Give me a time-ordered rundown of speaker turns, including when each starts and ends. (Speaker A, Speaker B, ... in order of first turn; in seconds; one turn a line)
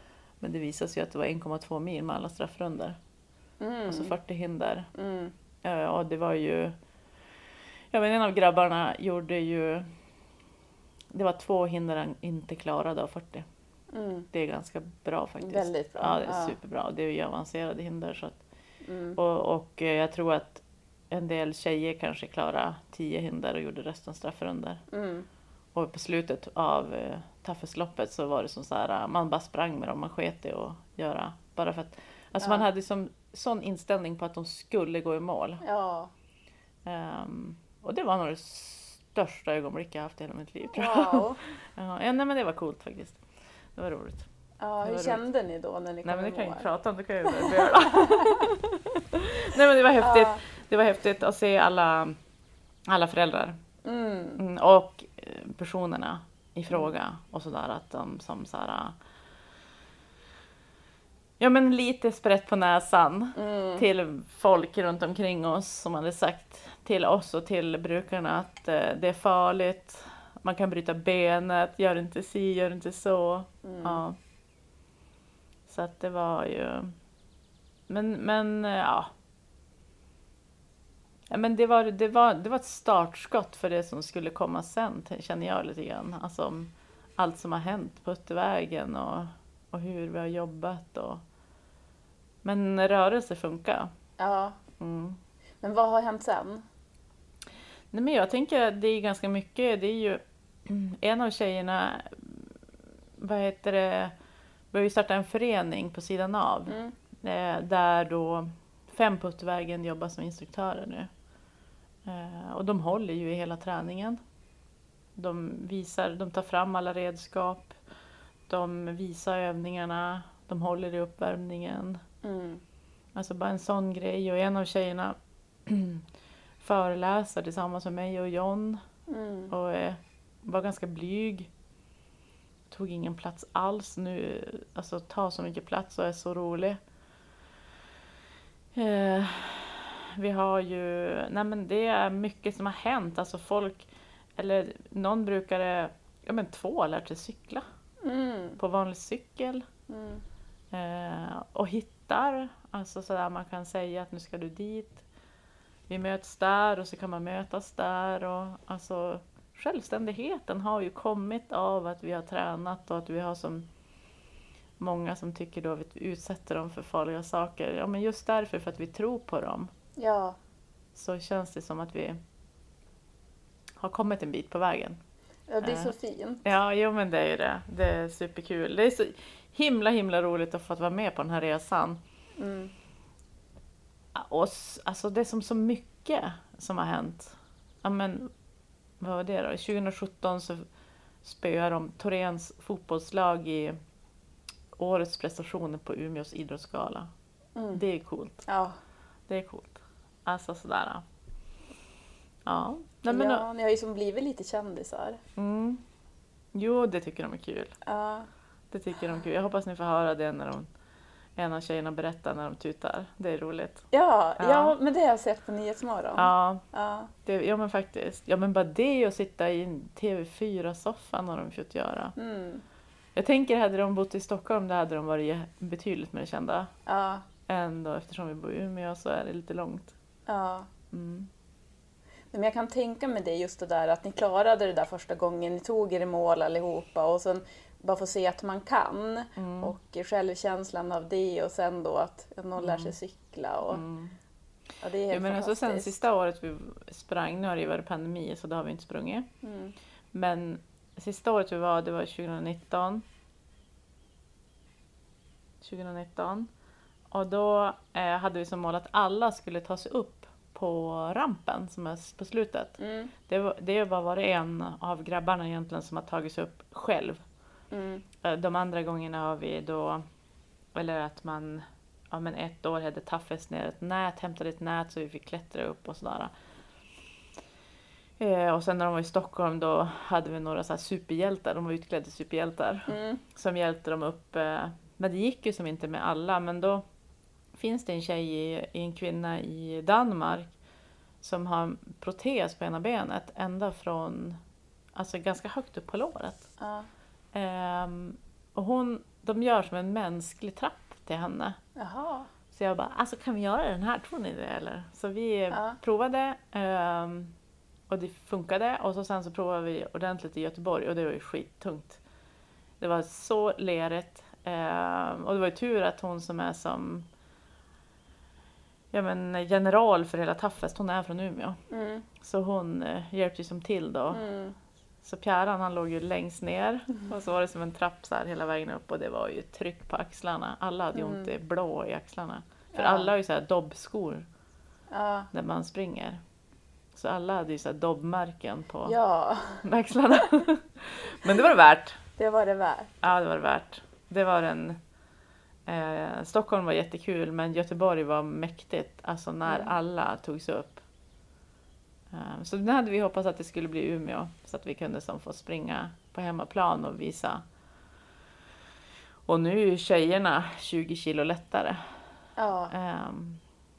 Speaker A: 0.4-3.0
Speaker B: 3.6-4.1
Speaker A: 3.9-4.9
Speaker B: 5.0-5.3
Speaker A: 5.6-6.8
Speaker A: 7.9-9.9
Speaker A: 11.1-13.5
Speaker B: 13.9-14.3
Speaker A: 14.3-18.4
Speaker B: 15.4-16.6
Speaker B: 18.9-19.2
Speaker A: 19.2-24.8
Speaker B: 24.9-25.3
Speaker A: 25.8-35.6
Speaker B: 35.6-36.1
Speaker A: 36.9-43.2
Speaker B: 40.8-41.4
Speaker A: 43.8-44.3
Speaker B: 44.6-46.7
Speaker A: 44.8-45.2
Speaker A: 46.0-52.2
Speaker B: 47.3-48.4
Speaker B: 50.0-50.4
Speaker A: 52.9-53.6
Speaker B: 53.8-54.4
Speaker A: 54.4-59.0
Speaker A: 61.4-74.2
Speaker B: 63.4-63.9
Speaker B: 73.6-74.0
Speaker A: 75.7-76.9
Speaker A: 77.9-79.1
Speaker A: 81.3-91.2
Speaker A: 92.4-93.9
Speaker B: 94.2-94.6
Speaker A: 94.8-95.2
Speaker B: 95.6-96.6
Speaker A: 97.9-102.5
Speaker A: 103.2-104.1
Speaker A: 104.7-111.1
Speaker B: 106.7-106.9
Speaker A: 112.1-114.2
Speaker A: 115.2-117.8
Speaker A: 118.5-122.0
Speaker B: 122.2-122.6
Speaker A: 123.2-126.0
Speaker A: 126.6-128.8
Speaker B: 129.1-129.5
Speaker A: 129.5-131.5
Speaker A: 132.7-136.8
Speaker A: 138.8-147.7
Speaker B: 148.0-148.6
Speaker A: 148.6-149.7
Speaker B: 149.9-150.2
Speaker A: 150.7-155.1
Speaker A: 155.9-163.7
Speaker A: 164.8-169.7
Speaker B: 170.0-170.4
Speaker A: 170.9-172.2
Speaker A: 173.8-175.0
Speaker B: 175.5-176.4
Speaker A: 175.6-182.0
Speaker B: 182.4-182.7
Speaker A: 184.2-188.3
Speaker A: 189.0-190.7
Speaker A: 191.2-193.8
Speaker A: 194.8-197.1
Speaker B: 197.6-197.8
Speaker A: 197.8-198.5
Speaker B: 198.5-198.8
Speaker A: 199.3-201.0
Speaker A: 202.5-203.5
Speaker B: 203.1-205.2
Speaker A: 205.4-205.8
Speaker A: 206.5-207.8
Speaker B: 207.8-208.3
Speaker A: 208.7-210.7
Speaker A: 211.4-213.8
Speaker B: 213.9-217.1
Speaker A: 214.4-214.8
Speaker A: 216.2-216.6
Speaker A: 217.2-222.2
Speaker B: 222.2-222.6
Speaker A: 223.2-226.7
Speaker B: 226.9-227.2
Speaker A: 227.5-229.9
Speaker B: 230.3-230.7
Speaker A: 230.9-231.3
Speaker B: 232.3-243.8
Speaker A: 239.4-239.7
Speaker A: 242.6-242.9
Speaker A: 243.7-244.2
Speaker B: 244.8-246.0
Speaker A: 245.1-249.3
Speaker B: 249.4-249.8
Speaker A: 250.1-253.0
Speaker A: 255.6-256.5
Speaker A: 257.1-267.2
Speaker B: 262.8-263.1
Speaker B: 267.7-268.0
Speaker A: 268.2-270.0
Speaker A: 270.8-276.3
Speaker A: 278.2-286.8
Speaker B: 282.9-283.2
Speaker A: 287.6-290.5
Speaker A: 291.2-294.4
Speaker A: 294.9-296.5
Speaker B: 296.6-296.9
Speaker A: 297.3-301.6
Speaker B: 301.8-302.3
Speaker A: 302.5-307.3
Speaker B: 305.5-305.8
Speaker A: 307.9-312.0
Speaker A: 312.8-317.1
Speaker A: 318.9-321.6
Speaker B: 321.7-322.1
Speaker A: 322.2-324.2
Speaker B: 324.1-324.6
Speaker A: 325.0-334.3
Speaker B: 330.9-331.3
Speaker B: 332.7-333.1
Speaker B: 334.9-335.3
Speaker A: 335.3-336.2
Speaker A: 336.9-338.9
Speaker B: 338.9-339.6
Speaker A: 339.6-342.0
Speaker B: 342.2-342.9
Speaker A: 343.0-344.8
Speaker A: 345.7-350.8
Speaker B: 349.5-349.7
Speaker A: 352.1-357.4
Speaker A: 359.3-361.8
Speaker B: 362.4-362.7
Speaker A: 362.7-363.4